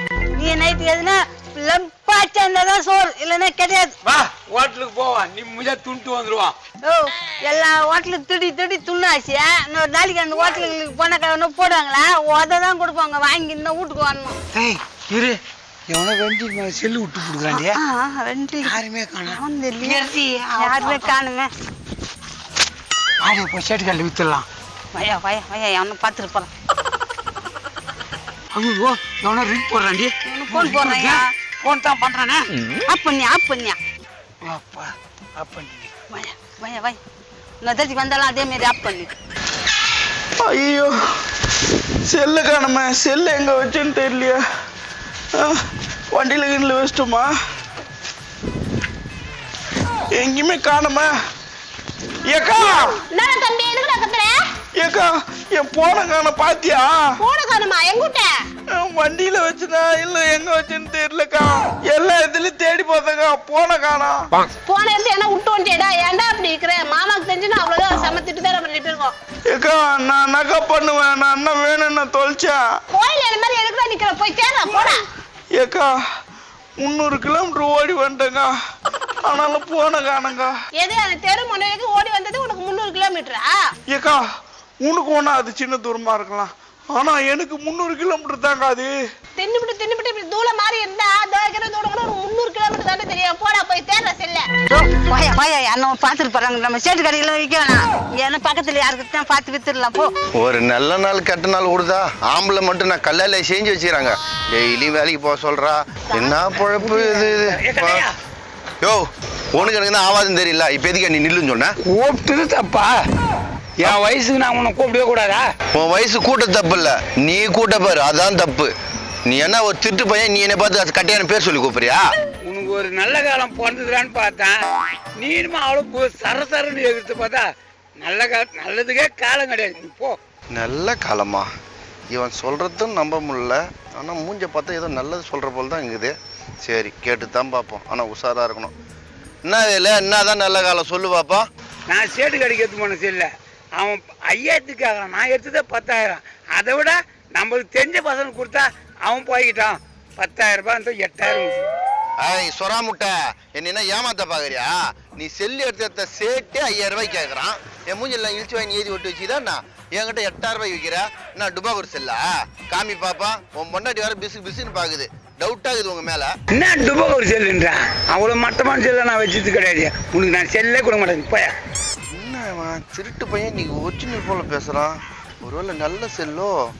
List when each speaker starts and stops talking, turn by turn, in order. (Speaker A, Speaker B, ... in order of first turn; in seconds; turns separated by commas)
Speaker A: 0.3-4.0, Speaker B: 4.0-6.5, Speaker A: 6.8-14.3, Speaker B: 14.5-17.8, Speaker A: 17.6-21.5, Speaker B: 18.6-21.1, Speaker B: 23.2-24.4, Speaker A: 24.9-26.5, Speaker B: 28.5-32.6, Speaker A: 30.3-31.3, Speaker A: 32.8-33.8, Speaker B: 34.4-35.9, Speaker A: 36.1-37.0, Speaker A: 37.6-39.1, Speaker C: 40.4-40.9, Speaker C: 42.1-44.4, Speaker C: 45.3-45.6, Speaker C: 46.1-47.3, Speaker C: 50.1-51.1, Speaker C: 52.3-53.0, Speaker D: 52.6-54.3, Speaker C: 54.8-57.2, Speaker D: 57.2-58.3, Speaker C: 58.7-64.3, Speaker D: 64.6-69.1, Speaker C: 69.5-72.6, Speaker D: 72.9-75.0, Speaker C: 75.5-75.9, Speaker C: 76.8-78.5, Speaker C: 79.2-80.5, Speaker D: 80.8-83.5, Speaker C: 83.9-84.2, Speaker C: 84.8-88.9, Speaker D: 89.4-94.5, Speaker A: 94.7-100.1, Speaker E: 100.4-108.0, Speaker B: 106.8-108.1, Speaker E: 108.8-111.7, Speaker B: 111.9-112.9, Speaker B: 113.8-115.4, Speaker E: 115.7-118.7, Speaker E: 119.2-122.0, Speaker B: 122.4-124.5, Speaker B: 125.2-127.5, Speaker B: 128.0-130.2, Speaker E: 130.5-131.5, Speaker E: 132.1-136.1, Speaker E: 136.6-138.7, Speaker E: 139.4-141.4, Speaker B: 141.9-151.6, Speaker E: 152.2-166.3, Speaker B: 166.5-171.5, Speaker E: 172.1-176.6